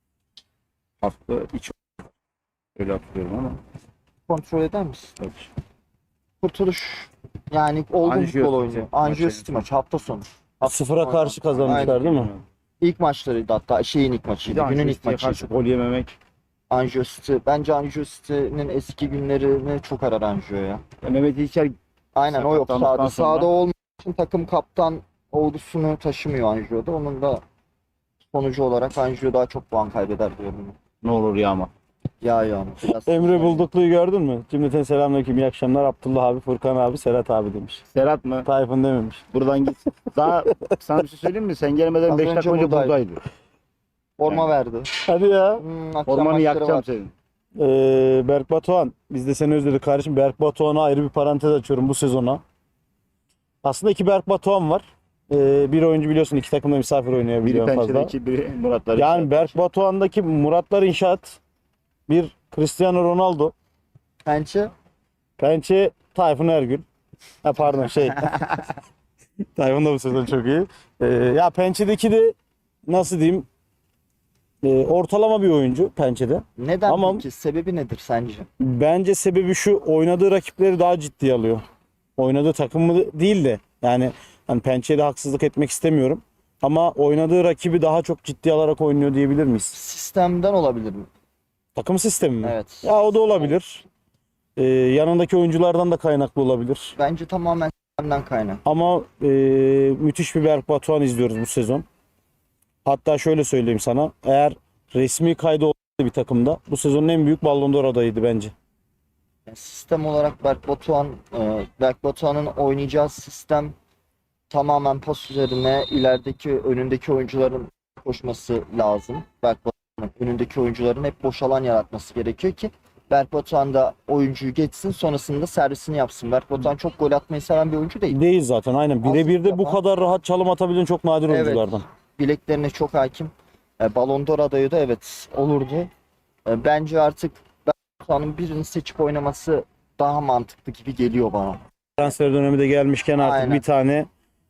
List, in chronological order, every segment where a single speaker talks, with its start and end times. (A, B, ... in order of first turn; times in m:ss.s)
0:01.0-0:01.8 A
0:02.8-0:03.6 A
0:04.3-0:05.2 B
0:05.2-0:05.4 A
0:06.4-0:12.0 B
0:08.0-0:09.6 A
0:10.6-0:12.3 C
0:11.4-0:12.4 A
0:12.8-0:15.5 B
0:14.5-0:16.2 A
0:16.7-0:20.8 B
0:21.0-0:21.8 A
0:22.2-0:27.4 B
0:22.3-0:23.5 A
0:28.3-0:30.8 B
0:31.0-0:31.7 A
0:32.2-0:33.7 B
0:33.0-0:37.8 C
0:37.9-0:38.5 A
0:38.4-0:39.2 C
0:39.3-0:43.2 A
0:42.1-0:43.0 B
0:44.2-0:45.0 B
0:45.0-0:45.6 C
0:45.6-0:46.9 B
0:46.1-0:47.1 A
0:47.6-0:52.4 C
0:53.6-0:58.1 C
0:57.4-0:59.5 A
0:59.0-1:01.4 C
1:02.1-1:03.5 C
1:04.2-1:04.7 B
1:05.4-1:06.8 C
1:07.4-1:08.3 C
1:09.6-1:12.4 C
1:12.9-1:13.5 C
1:14.6-1:17.2 C
1:16.6-1:18.5 B
1:18.6-1:21.6 C
1:22.2-1:29.8 C
1:29.7-1:31.1 B
1:31.8-1:33.8 C
1:32.4-1:33.6 B
1:34.6-1:37.0 C
1:37.0-1:38.6 B
1:38.6-1:41.8 C
1:42.8-1:48.5 C
1:49.5-1:53.8 B
1:54.5-2:08.2 B
2:08.1-2:11.8 C
2:09.0-2:09.8 B
2:11.3-2:15.9 B
2:16.5-2:21.6 B
2:22.0-2:24.1 C
2:23.2-2:23.6 B